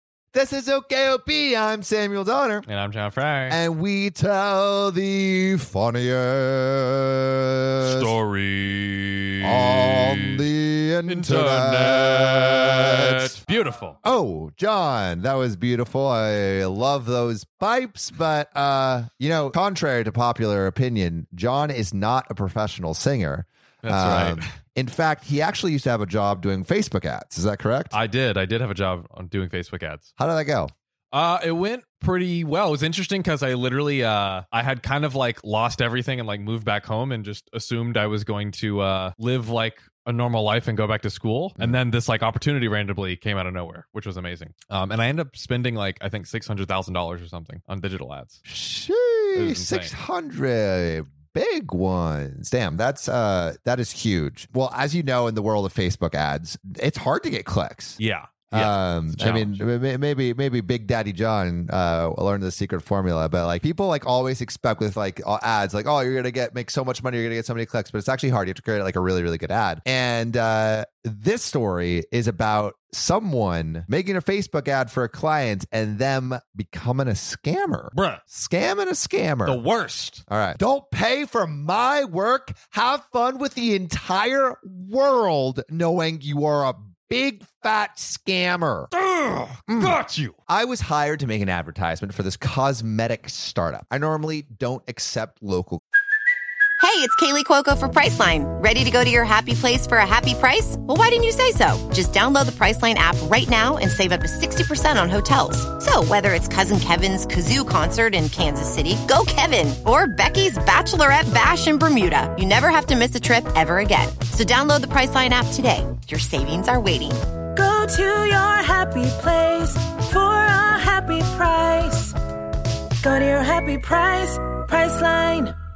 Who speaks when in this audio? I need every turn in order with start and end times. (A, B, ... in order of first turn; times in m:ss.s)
0:00.3-0:02.7 A
0:02.7-0:03.6 B
0:03.5-0:08.2 A
0:07.8-0:10.4 B
0:09.4-0:13.4 A
0:11.1-0:14.0 B
0:14.0-0:28.0 A
0:23.8-0:24.4 B
0:27.9-0:30.1 B
0:30.2-0:30.7 A
0:31.1-0:48.4 B
0:48.5-0:58.0 A
0:49.4-0:50.0 B
0:58.0-0:59.6 B
0:58.5-1:19.6 A
1:17.9-1:18.2 B
1:19.4-1:20.2 B
1:20.3-1:28.9 A
1:28.9-1:30.4 B
1:29.7-1:30.0 A
1:30.5-1:35.8 A
1:36.8-1:57.2 C
1:57.6-2:02.2 D
2:03.0-2:05.6 D